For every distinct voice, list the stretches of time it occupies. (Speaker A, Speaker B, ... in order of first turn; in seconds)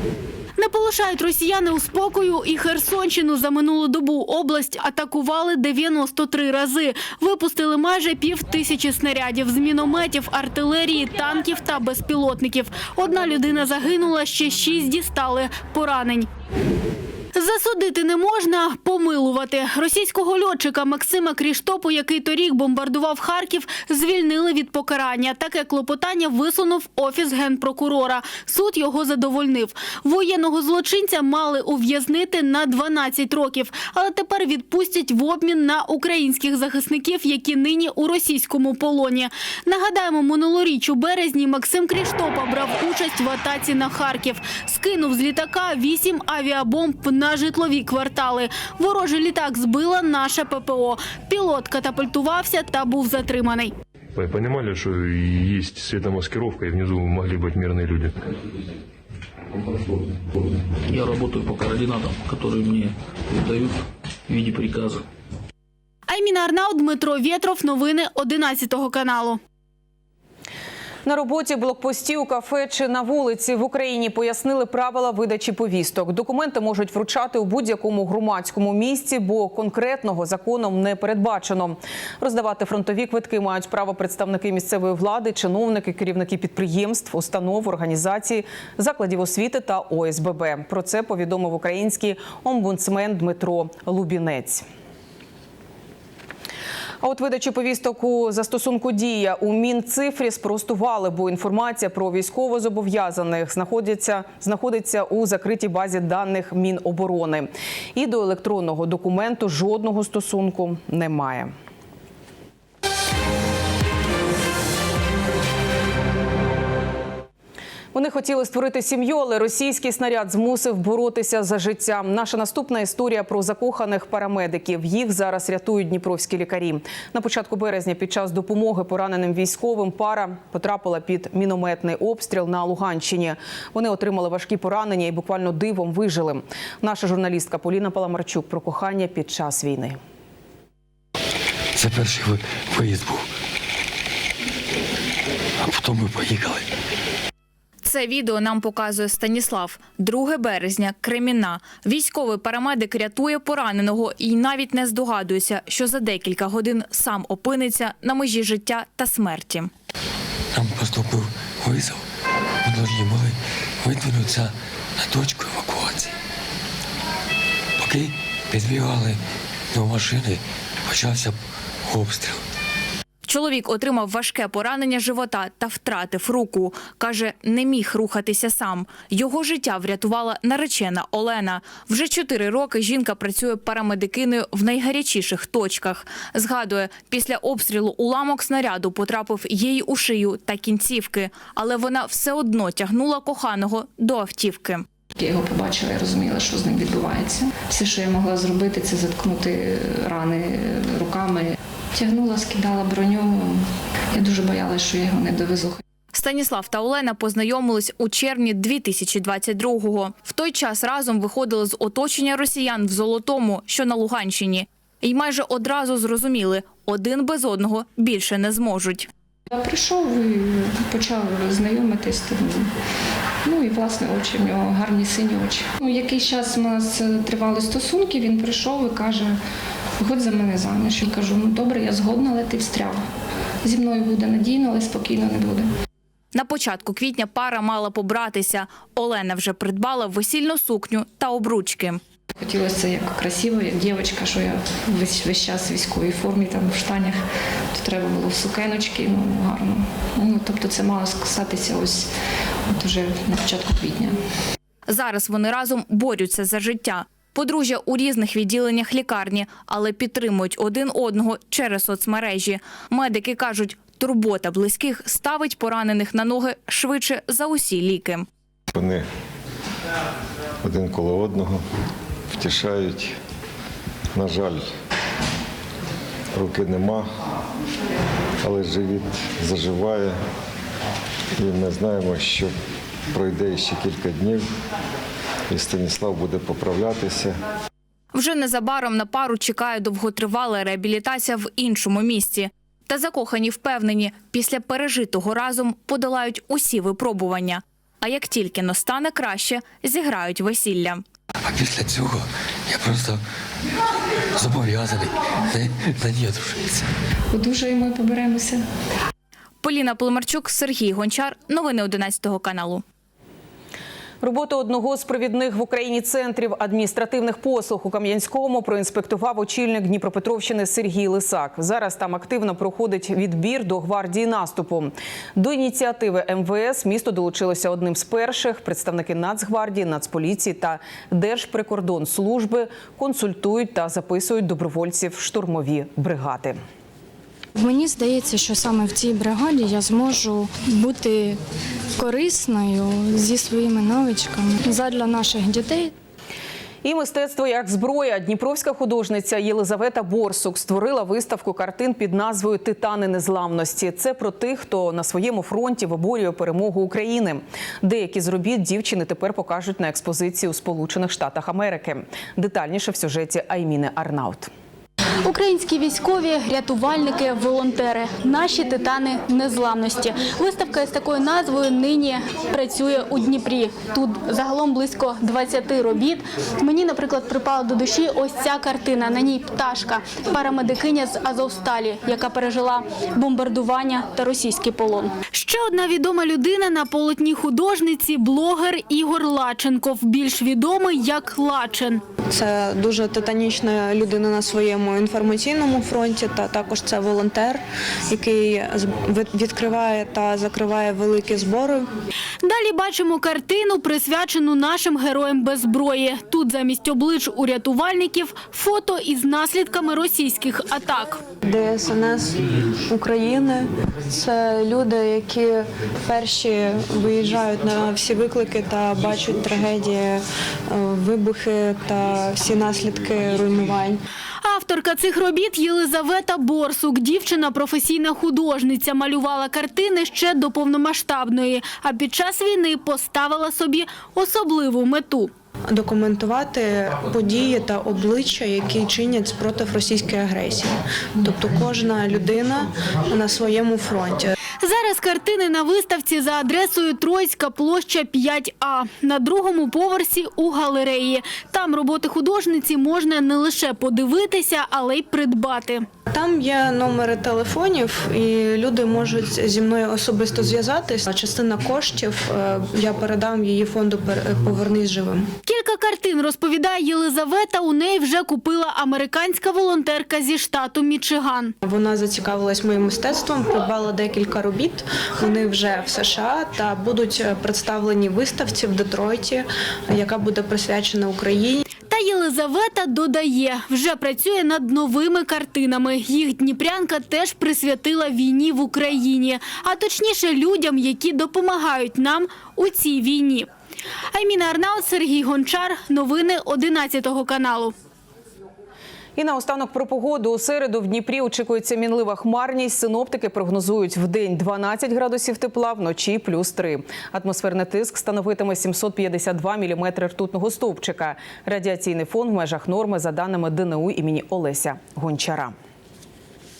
Speaker A: 0.6-16.3, 17.4-53.7, 66.1-69.4, 365.2-392.0, 402.4-411.2, 424.4-435.3, 444.6-455.9, 465.5-471.5, 481.9-493.5, 494.1-497.8
Speaker B: 54.2-58.1
Speaker C: 60.9-63.8, 64.3-65.0
Speaker D: 71.1-94.6, 97.0-111.5, 117.9-140.0, 314.2-336.6, 346.8-364.5, 499.2-515.5
Speaker E: 141.8-143.3, 145.6-146.7, 160.5-162.0, 162.6-166.2, 167.8-169.2, 169.7-172.4, 301.4-303.2, 304.4-306.9
Speaker F: 147.8-159.7, 173.2-194.8, 206.1-219.1, 236.3-242.0, 254.9-268.2, 288.1-301.0, 309.6-312.8
Speaker G: 195.2-205.8, 219.5-222.7, 223.4-229.4, 230.0-233.0, 233.6-235.7, 242.4-247.2, 247.7-252.1, 252.7-254.2, 307.3-308.6
Speaker H: 268.7-269.1, 270.6-271.6, 272.3-273.1, 274.1-274.7, 276.3-277.1, 278.4-280.2, 281.4-282.5, 283.1-284.5, 285.5-287.4
Speaker I: 337.6-341.4, 342.0-345.9
Speaker J: 392.3-401.9, 411.4-424.0, 435.7-444.3, 456.1-465.3, 471.6-481.6